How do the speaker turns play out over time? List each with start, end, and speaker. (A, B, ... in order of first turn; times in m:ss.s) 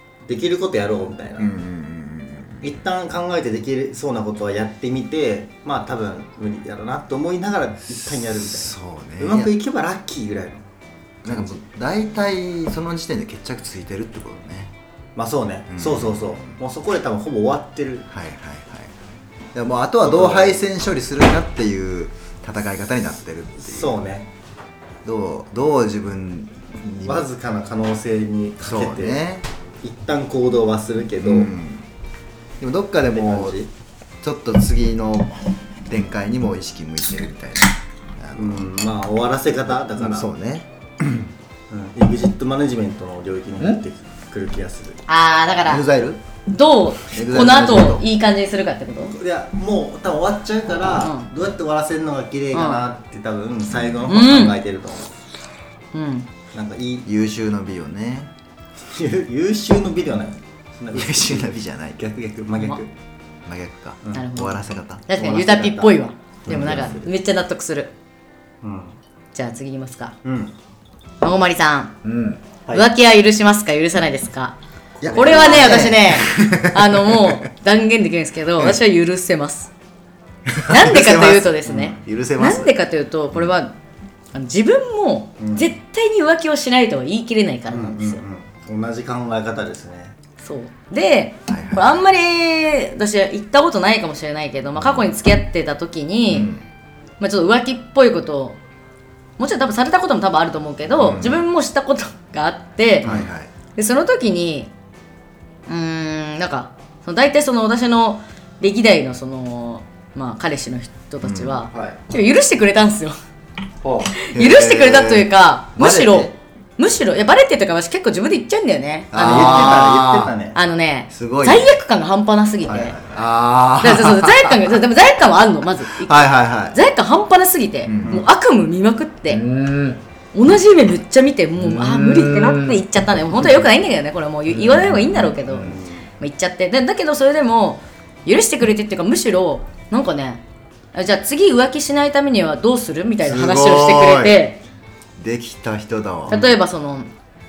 0:00.3-0:01.5 A
0:01.4-0:02.8 B
0:02.6-0:10.6 A
0:07.9-0:09.5 B
0:11.2-0:11.6 A
0:11.2-0:14.7 B
0:15.2-0:18.1 A
0:15.7-0:16.6 B
0:18.1-0:18.9 B
0:19.5-0:24.0 B
0:20.0-0:20.6 A
0:23.6-0:24.3 A
0:25.0-0:27.3 B
0:27.0-0:29.2 A
0:28.6-0:29.4 B
0:29.8-0:31.5 A
0:31.2-0:31.9 B
0:32.6-0:33.6 B
0:33.1-0:33.7 A
0:34.2-0:38.7 B
0:38.4-0:40.3 A
0:39.9-0:41.3 B
0:41.7-0:45.0 A
0:45.1-0:45.8 C
0:45.6-0:46.2 B
0:46.5-0:49.2 C
0:47.1-0:48.0 B
0:49.1-0:55.1 A
0:51.0-0:51.3 C
0:52.5-0:52.8 C
0:54.1-0:54.6 C
0:55.9-0:56.3 C
0:56.5-0:57.1 A
0:57.0-0:58.3 B
0:58.9-1:02.9 A
1:00.9-1:02.0 B
1:03.4-1:05.0 B
1:04.0-1:04.3 A
1:04.1-1:04.6 C
1:05.1-1:07.9 C
1:05.1-1:07.1 A
1:06.5-1:07.0 B
1:08.6-1:09.0 A
1:09.3-1:10.2 C
1:10.2-1:10.5 A
1:11.2-1:12.0 C
1:12.0-1:12.4 B
1:12.7-1:14.6 C
1:15.0-1:17.4 B
1:15.0-1:15.9 A
1:15.1-1:19.7 C
1:20.5-1:22.7 B
1:20.6-1:23.7 C
1:24.3-1:28.2 C
1:25.4-1:25.7 A
1:27.7-1:30.1 A
1:30.4-1:36.5 C
1:31.5-1:32.0 B
1:34.8-1:35.1 B
1:36.3-1:36.6 B
1:37.2-1:38.6 C
1:39.4-1:43.1 C
1:41.0-1:41.5 B
1:43.0-1:43.5 B
1:43.8-1:44.7 C
1:45.7-1:53.2 C
1:51.2-1:51.6 B
1:51.7-1:52.0 A
1:53.8-1:54.1 A
1:54.1-1:59.9 C
1:54.3-1:56.3 B
1:59.1-2:00.3 B
1:59.2-2:00.6 A
2:00.5-2:03.0 C
2:01.1-2:01.7 B
2:02.7-2:03.0 A
2:03.0-2:04.8 B
2:03.8-2:09.4 C
2:05.9-2:06.8 B
2:07.8-2:08.2 B
2:09.3-2:10.0 B
2:10.3-2:20.4 C
2:11.6-2:12.8 B
2:14.5-2:15.8 B
2:15.6-2:16.1 A
2:20.9-2:24.6 C
2:23.2-2:24.4 B
2:25.2-2:26.5 B
2:26.3-2:27.1 C